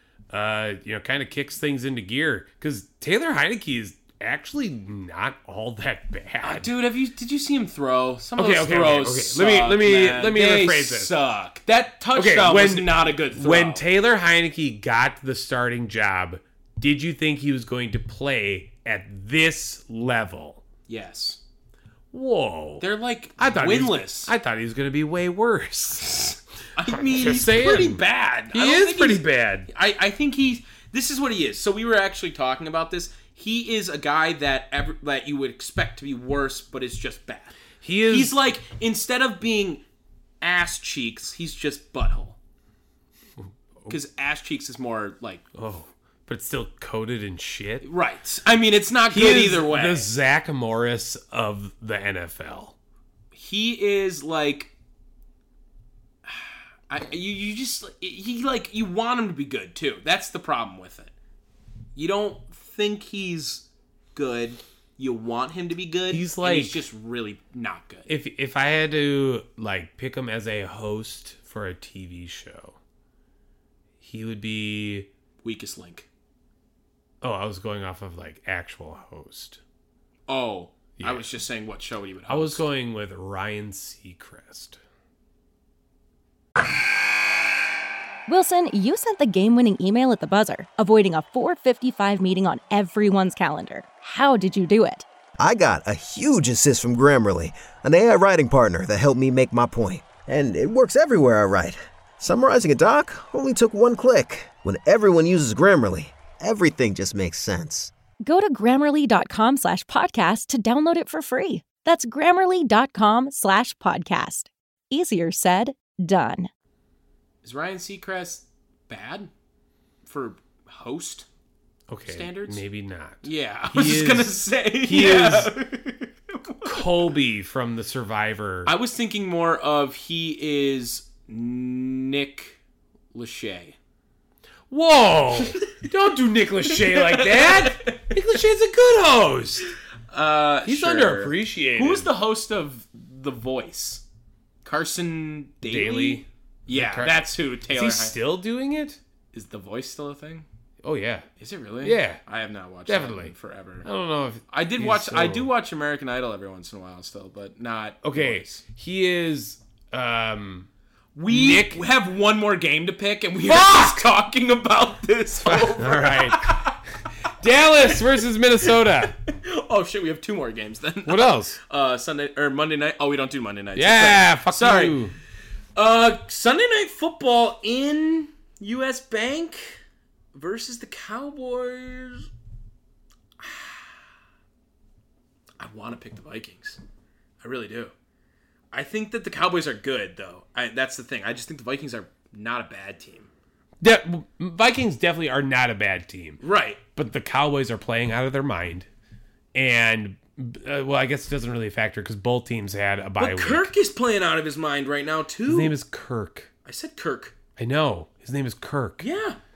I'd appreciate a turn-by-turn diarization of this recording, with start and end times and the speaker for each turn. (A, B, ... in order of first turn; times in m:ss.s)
0:00.3-0:06.7 A
0:06.4-0:13.8 B
0:08.4-0:11.1 A
0:12.1-0:20.6 A
0:20.9-0:21.4 B
0:22.1-0:22.8 A
0:22.8-0:24.3 B
0:23.4-0:28.0 A
0:26.8-0:37.5 B
0:28.5-0:29.7 A
0:37.8-0:38.4 A
0:38.1-0:39.8 B
0:40.4-0:42.4 B
0:43.4-0:44.0 A
0:43.9-0:45.4 B
0:45.5-0:47.8 A
0:47.8-0:50.1 B
0:49.1-0:52.7 A
0:53.3-0:54.7 B
0:56.2-1:01.1 B
1:02.0-1:08.1 B
1:06.1-1:06.8 A
1:08.1-1:12.8 A
1:14.0-1:15.1 A
1:15.4-1:16.1 B
1:17.2-1:19.6 A
1:20.3-1:22.6 B
1:21.0-1:21.3 A
1:22.3-1:24.8 A
1:28.3-1:35.0 C
1:35.4-1:47.9 D
1:48.2-1:56.5 C
1:57.4-1:59.3 B
2:00.0-2:01.3 B
2:01.9-2:05.5 A
2:02.0-2:02.6 B
2:03.2-2:07.1 B
2:06.6-2:08.7 A
2:08.6-2:12.6 B
2:13.1-2:13.8 B
2:14.7-2:19.7 A
2:15.4-2:15.8 B
2:16.7-2:18.2 B
2:20.1-2:24.0 B
2:20.6-2:22.1 A
2:24.6-2:28.2 B
2:25.7-2:29.0 A
2:29.3-2:30.5 B
2:30.8-2:31.3 A
2:31.4-2:33.9 B
2:31.8-2:32.2 A
2:32.8-2:35.5 A
2:34.5-2:38.6 B
2:38.0-2:40.7 A
2:41.1-2:46.8 B
2:41.3-2:41.8 A
2:43.4-2:44.1 A
2:45.4-2:46.7 A
2:47.4-2:49.2 A
2:47.8-2:48.1 B
2:48.6-2:55.0 B
2:51.0-2:51.6 A
2:53.8-2:55.1 A
2:55.7-2:59.8 B
3:00.3-3:02.3 B
3:03.4-3:04.0 B
3:05.6-3:06.8 B
3:07.4-3:07.9 B
3:08.7-3:13.3 B
3:13.8-3:16.4 A
3:16.4-3:16.8 B
3:16.9-3:18.9 A
3:19.5-3:23.7 A
3:23.2-3:25.7 B
3:25.5-3:26.5 A
3:26.6-3:27.4 B
3:27.6-3:29.0 A
3:29.0-3:29.4 B